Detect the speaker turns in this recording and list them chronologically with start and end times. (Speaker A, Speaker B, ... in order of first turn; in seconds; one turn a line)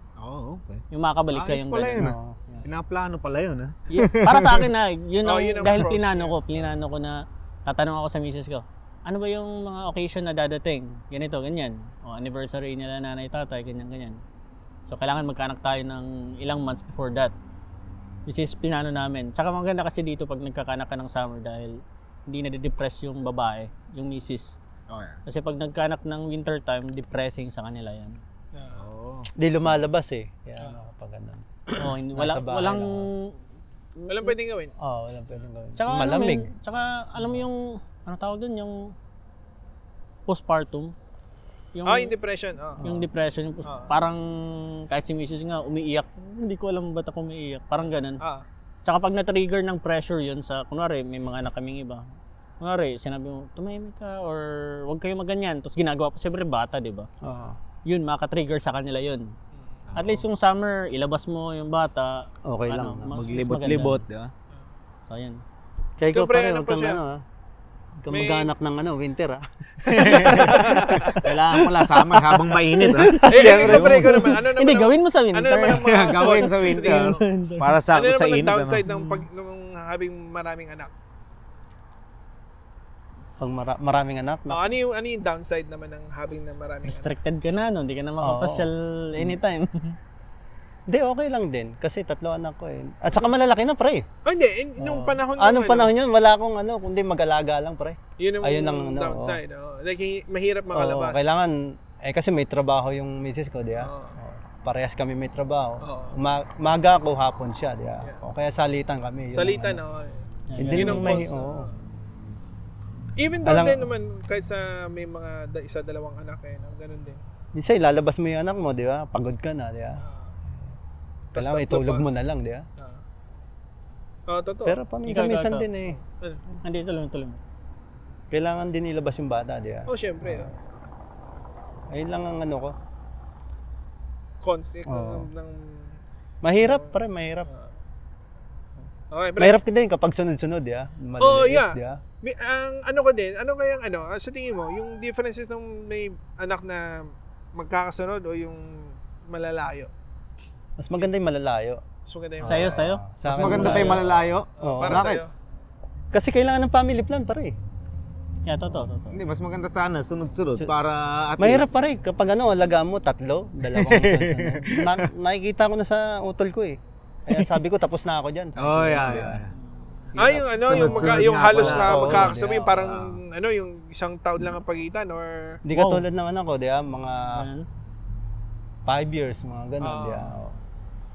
Speaker A: 0.2-4.7
Speaker B: 0.9-2.6
Speaker C: 2.0-2.4
Speaker B: 3.9-14.2
Speaker D: 5.2-6.4
Speaker B: 14.9-17.3
Speaker B: 18.3-24.6
Speaker A: 24.9-25.2
Speaker B: 25.2-28.2
Speaker D: 28.5-28.9
Speaker A: 28.7-29.3
Speaker C: 29.4-31.4
Speaker B: 31.8-33.4
Speaker C: 32.1-33.1
Speaker B: 34.0-34.3
Speaker D: 34.1-34.7
Speaker C: 34.8-36.5
Speaker B: 35.8-38.9
Speaker B: 40.3-40.9
Speaker B: 41.7-42.1
Speaker D: 41.9-42.8
Speaker C: 42.8-43.1
Speaker B: 42.8-48.2
Speaker D: 43.6-43.9
Speaker D: 47.8-48.5
Speaker B: 48.8-52.0
Speaker B: 52.6-57.1
Speaker C: 57.2-57.6
Speaker B: 57.9-59.3
Speaker A: 59.9-60.2
Speaker B: 60.0-64.0
Speaker C: 62.5-63.3
Speaker A: 63.1-64.3
Speaker B: 65.0-65.4
Speaker C: 66.0-67.2
Speaker D: 66.1-67.0
Speaker C: 68.0-71.2
Speaker D: 68.1-68.5
Speaker A: 69.8-74.2
Speaker D: 70.0-71.2
Speaker B: 72.8-77.7
Speaker D: 73.2-77.2
Speaker A: 75.7-78.8
Speaker D: 77.9-80.9
Speaker B: 78.9-79.2
Speaker C: 83.4-84.7
Speaker D: 84.5-87.1
Speaker B: 86.8-90.0
Speaker C: 88.2-89.4
Speaker C: 90.9-94.0
Speaker D: 94.2-95.9
Speaker C: 94.8-99.4
Speaker D: 98.2-101.3
Speaker C: 100.7-109.8
Speaker D: 103.8-104.2
Speaker D: 105.8-106.2
Speaker D: 109.3-111.7
Speaker B: 110.5-111.2
Speaker C: 110.6-111.7
Speaker D: 113.2-117.2
Speaker C: 113.4-113.9
Speaker C: 117.5-120.0
Speaker D: 120.0-120.4
Speaker D: 121.3-122.1
Speaker C: 121.3-122.6
Speaker D: 124.3-124.8
Speaker C: 124.6-126.0
Speaker B: 125.0-125.7
Speaker D: 126.0-126.4
Speaker B: 126.6-127.4
Speaker C: 128.3-130.5
Speaker D: 129.9-130.6
Speaker C: 131.9-132.8
Speaker D: 134.4-135.9
Speaker C: 134.9-135.3
Speaker C: 136.4-137.5
Speaker D: 136.6-136.9
Speaker D: 137.5-137.7
Speaker D: 139.1-139.6
Speaker C: 139.4-142.0
Speaker D: 141.2-149.9
Speaker C: 150.8-151.8
Speaker D: 152.0-152.8
Speaker C: 152.4-155.2
Speaker B: 152.4-154.0
Speaker A: 153.2-155.2
Speaker D: 154.6-155.3
Speaker C: 156.1-157.5
Speaker B: 158.4-159.2
Speaker A: 159.1-161.7
Speaker C: 161.4-169.4
Speaker A: 163.7-165.0
Speaker A: 168.6-169.5
Speaker C: 170.1-173.0
Speaker D: 170.2-175.6
Speaker A: 170.7-172.3
Speaker C: 175.6-177.5
Speaker B: 175.7-176.0
Speaker B: 177.3-177.7
Speaker C: 178.8-180.6
Speaker D: 179.8-180.3